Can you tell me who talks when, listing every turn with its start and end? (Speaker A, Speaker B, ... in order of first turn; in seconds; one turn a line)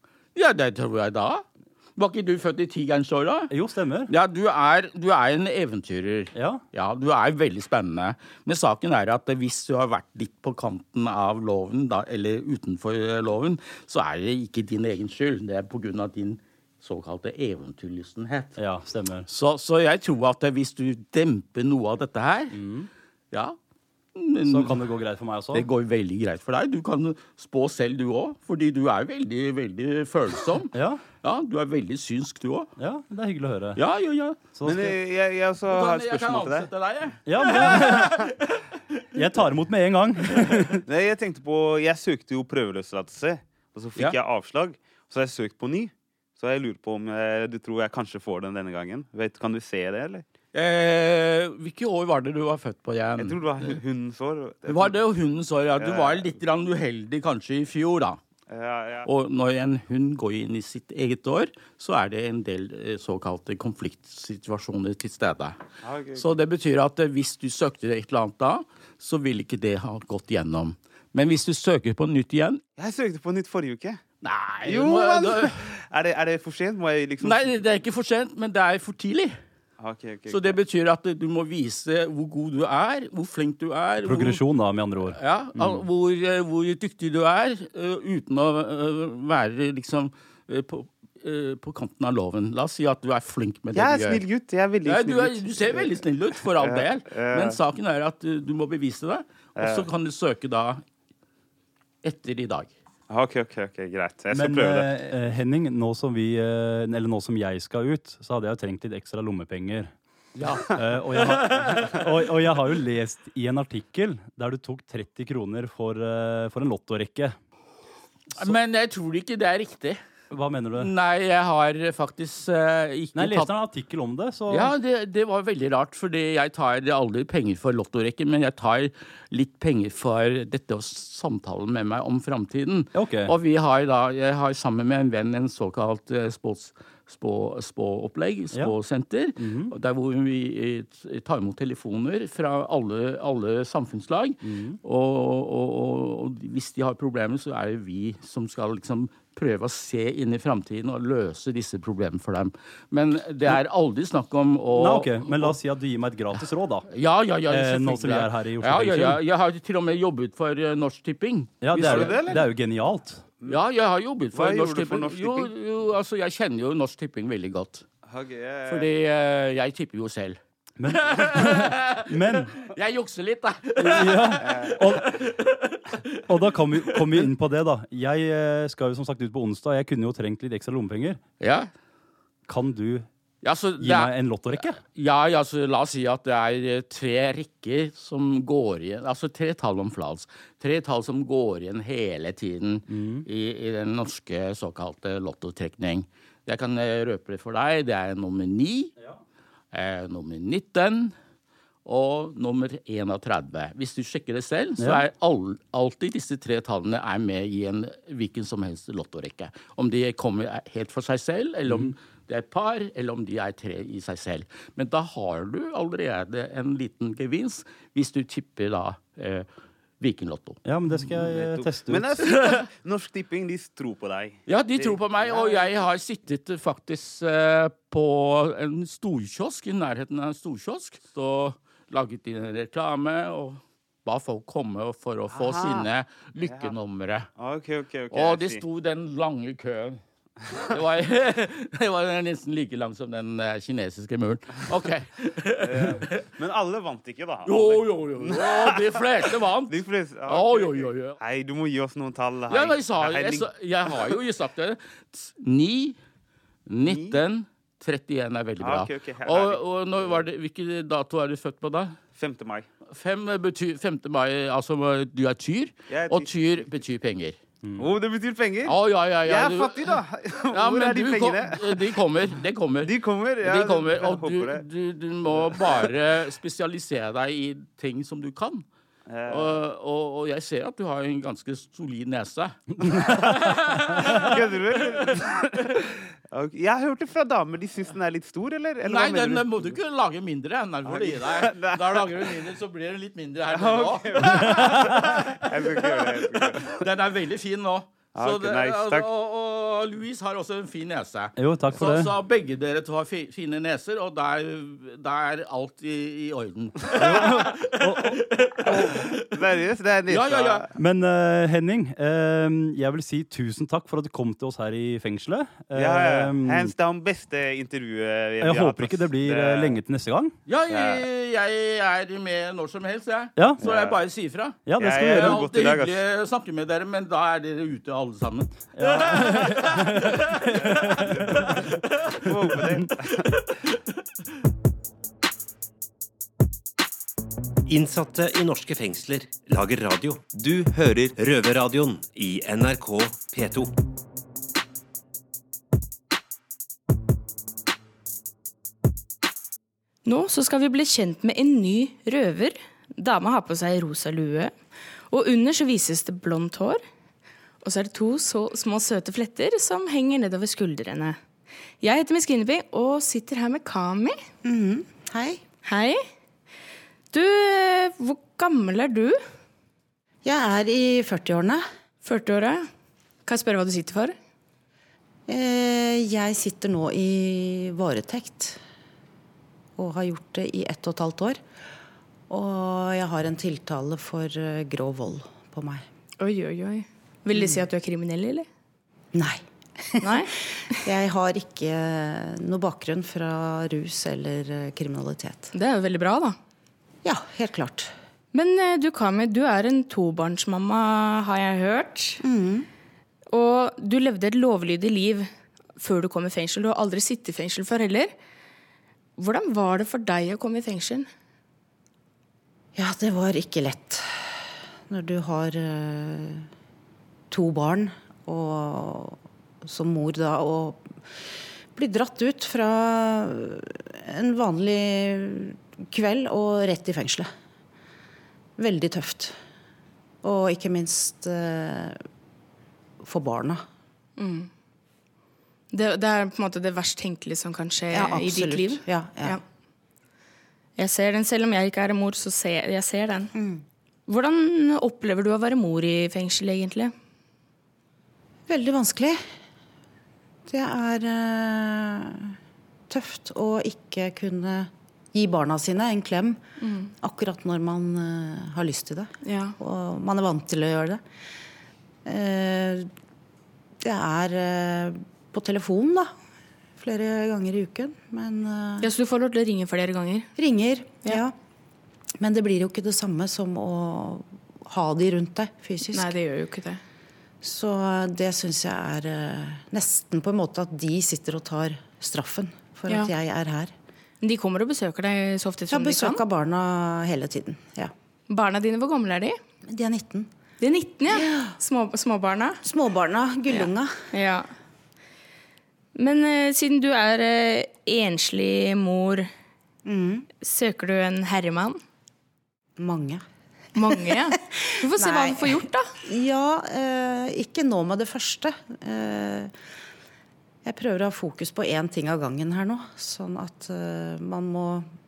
Speaker A: 0.3-3.5
Speaker B: 3.5-4.1
Speaker A: 4.1-18.6
Speaker B: 6.3-6.6
Speaker B: 18.6-19.3
Speaker A: 19.3-22.6
Speaker B: 22.5-22.9
Speaker A: 24.1-24.8
Speaker B: 24.5-25.7
Speaker A: 25.5-32.7
Speaker B: 30.7-31.0
Speaker B: 32.8-33.8
Speaker A: 33.8-34.4
Speaker B: 34.6-35.0
Speaker C: 34.6-36.7
Speaker A: 35.7-39.0
Speaker B: 37.3-38.3
Speaker B: 39.1-40.8
Speaker C: 40.9-50.2
Speaker A: 50.5-53.8
Speaker C: 53.2-55.0
Speaker A: 54.7-58.2
Speaker C: 55.8-56.3
Speaker C: 58.5-59.1
Speaker A: 59.0-65.6
Speaker C: 65.8-66.3
Speaker A: 66.2-72.6
Speaker C: 72.8-74.0
Speaker A: 74.2-75.6
Speaker C: 74.6-77.5
Speaker A: 77.2-79.4
Speaker C: 79.8-80.6
Speaker A: 80.3-84.4
Speaker B: 84.0-85.8
Speaker A: 85.1-94.2
Speaker C: 93.8-96.0
Speaker A: 94.9-100.8
Speaker C: 96.5-97.6
Speaker C: 99.6-99.9
Speaker A: 102.0-102.7
Speaker C: 103.1-104.9
Speaker B: 104.3-109.9
Speaker A: 110.4-112.0
Speaker B: 110.7-117.4
Speaker A: 118.4-120.0
Speaker B: 120.3-120.9
Speaker A: 120.8-123.5
Speaker B: 123.2-124.7
Speaker A: 124.5-155.6
Speaker B: 132.9-133.3
Speaker B: 139.4-139.7
Speaker B: 144.4-144.8
Speaker B: 154.7-156.9
Speaker A: 156.3-162.4
Speaker B: 157.5-159.2
Speaker B: 161.6-163.2
Speaker C: 161.8-162.5
Speaker A: 163.5-167.9
Speaker C: 164.3-165.5
Speaker C: 168.1-168.9
Speaker A: 168.7-176.3
Speaker B: 170.8-172.5
Speaker B: 173.8-175.0
Speaker C: 174.4-174.7
Speaker B: 176.3-181.2
Speaker A: 176.9-177.3
Speaker A: 181.4-181.7
Speaker B: 182.5-183.1
Speaker A: 183.4-198.9
Speaker B: 183.8-184.8
Speaker B: 192.9-193.3
Speaker A: 199.7-201.1
Speaker A: 201.8-219.5
Speaker B: 211.7-211.9
Speaker A: 220.0-220.6
Speaker B: 220.7-222.1
Speaker C: 221.3-225.8
Speaker A: 222.2-222.6
Speaker A: 224.5-237.3
Speaker C: 235.3-235.9
Speaker C: 236.5-236.7
Speaker C: 237.4-238.6
Speaker A: 238.1-240.0
Speaker A: 240.5-246.2
Speaker C: 245.6-253.9
Speaker A: 247.4-251.2
Speaker A: 252.5-256.0
Speaker A: 256.7-262.0
Speaker C: 256.9-257.2
Speaker C: 258.6-260.2
Speaker C: 262.2-262.7
Speaker A: 262.9-267.4
Speaker C: 265.9-266.6
Speaker B: 267.6-267.9
Speaker C: 267.8-271.8
Speaker A: 268.7-270.0
Speaker A: 270.5-278.7
Speaker C: 272.8-274.6
Speaker C: 275.4-275.9
Speaker C: 279.1-279.6
Speaker A: 279.3-285.4
Speaker B: 282.9-284.2
Speaker C: 284.0-289.8
Speaker A: 288.9-309.3
Speaker C: 290.9-292.3
Speaker C: 293.5-296.8
Speaker B: 294.2-295.2
Speaker C: 298.1-299.1
Speaker B: 301.4-302.1
Speaker B: 306.9-308.2
Speaker C: 308.7-310.7
Speaker A: 310.1-310.7
Speaker B: 310.8-316.7
Speaker C: 315.8-319.8
Speaker B: 318.4-320.4
Speaker A: 320.5-332.3
Speaker C: 320.7-321.0
Speaker C: 323.6-324.0
Speaker B: 324.7-325.5
Speaker C: 324.8-326.0
Speaker B: 328.8-331.5
Speaker C: 331.1-333.3
Speaker A: 333.3-333.8
Speaker D: 337.7-343.7
Speaker E: 350.1-354.5
Speaker E: 355.1-356.8
Speaker E: 357.6-361.2
Speaker E: 361.8-364.2
Speaker F: 364.4-365.4
Speaker E: 365.6-366.0
Speaker E: 367.1-369.2
Speaker F: 370.2-371.6
Speaker E: 372.0-372.7
Speaker E: 373.3-374.1
Speaker F: 375.3-378.6
Speaker F: 379.8-381.4
Speaker F: 382.3-385.8
Speaker E: 386.2-388.5
Speaker F: 389.1-389.4
Speaker F: 389.9-390.3
Speaker E: 390.0-390.9
Speaker F: 390.9-395.5
Speaker E: 395.5-396.3
Speaker F: 397.0-397.9
Speaker E: 398.3-402.2
Speaker F: 402.2-402.7
Speaker E: 403.3-408.1
Speaker E: 409.2-411.1
Speaker F: 412.8-414.3
Speaker F: 414.9-416.5
Speaker F: 417.3-420.8
Speaker F: 421.8-427.3
Speaker F: 428.6-429.4
Speaker F: 430.2-432.0
Speaker F: 433.0-433.6
Speaker E: 434.2-434.5
Speaker E: 435.7-439.4
Speaker F: 437.9-439.4
Speaker E: 440.8-443.3
Speaker F: 443.3-443.6
Speaker E: 444.1-446.9
Speaker F: 448.5-449.2
Speaker F: 450.5-452.4
Speaker F: 452.9-456.4
Speaker E: 456.6-456.9
Speaker F: 457.0-461.0
Speaker E: 459.2-459.6
Speaker F: 462.1-462.9
Speaker F: 463.8-466.1
Speaker F: 466.8-468.9
Speaker E: 468.8-470.3
Speaker F: 470.4-471.3
Speaker F: 472.2-476.1
Speaker E: 475.9-476.8
Speaker F: 477.4-483.7
Speaker E: 484.2-486.2
Speaker F: 485.7-487.9
Speaker E: 488.3-489.4
Speaker F: 489.6-490.3
Speaker E: 490.6-492.6
Speaker F: 491.1-491.6
Speaker F: 492.6-493.9
Speaker E: 493.5-494.5
Speaker E: 495.9-499.3
Speaker F: 499.9-500.3
Speaker E: 500.4-501.8
Speaker F: 502.8-503.2
Speaker E: 503.8-505.9
Speaker F: 503.8-509.5
Speaker F: 510.6-514.9